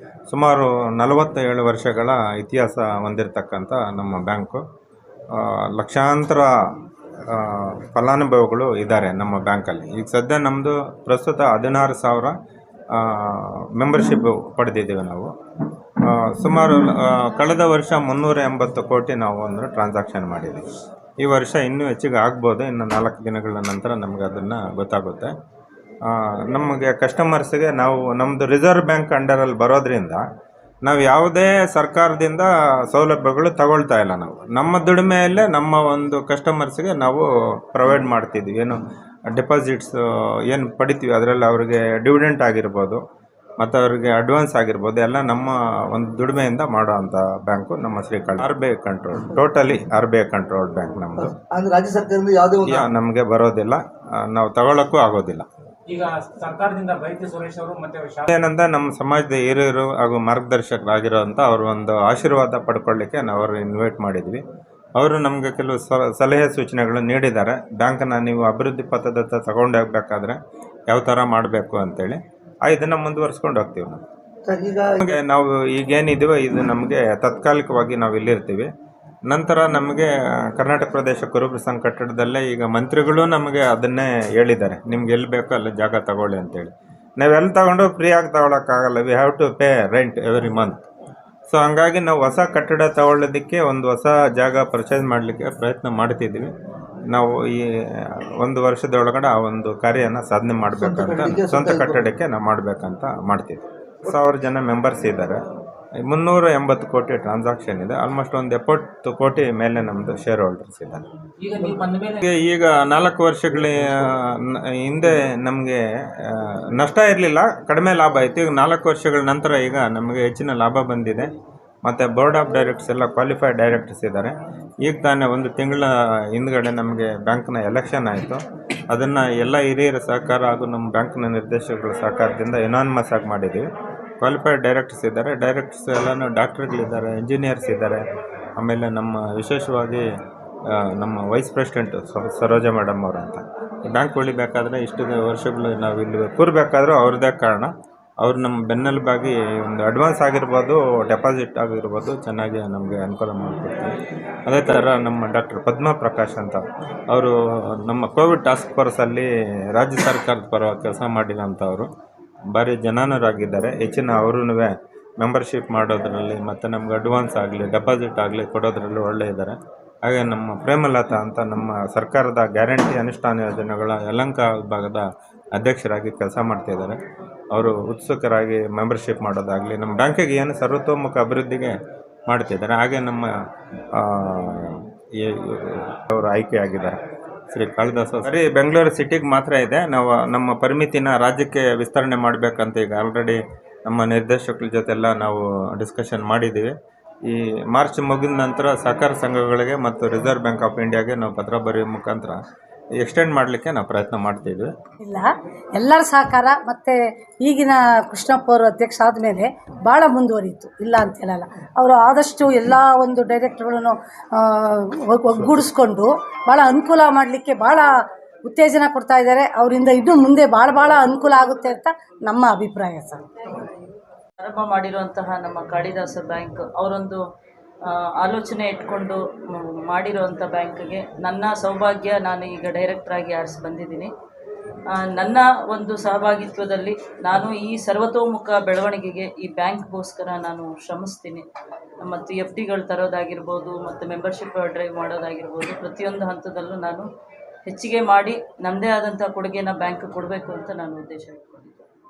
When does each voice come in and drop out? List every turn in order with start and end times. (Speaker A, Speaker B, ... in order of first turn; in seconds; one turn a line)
Speaker A: 0.3-4.6
Speaker A: 5.3-12.4
Speaker A: 12.9-15.3
Speaker A: 16.0-20.7
Speaker A: 21.2-25.3
Speaker A: 26.0-30.2
Speaker A: 30.8-43.0
Speaker A: 43.6-51.4
Speaker B: 51.4-52.9
Speaker A: 52.6-55.5
Speaker C: 55.9-58.2
Speaker A: 58.3-64.4
Speaker A: 65.0-74.0
Speaker B: 74.5-75.1
Speaker A: 75.0-78.7
Speaker A: 79.3-90.8
Speaker A: 91.5-96.5
Speaker A: 97.1-105.4
Speaker B: 100.8-102.1
Speaker A: 106.0-111.1
Speaker C: 111.4-112.2
Speaker A: 112.2-121.3
Speaker A: 121.8-133.7
Speaker A: 134.2-140.1
Speaker A: 140.7-161.9
Speaker A: 162.5-177.0
Speaker A: 177.5-181.8
Speaker A: 182.3-183.3
Speaker A: 183.9-187.0
Speaker A: 187.5-196.7
Speaker A: 197.2-202.4
Speaker A: 203.0-204.7
Speaker D: 205.1-217.9
Speaker D: 218.5-223.6
Speaker E: 224.4-227.2
Speaker E: 227.8-234.1
Speaker E: 234.9-241.4
Speaker E: 242.0-247.1
Speaker E: 247.7-251.9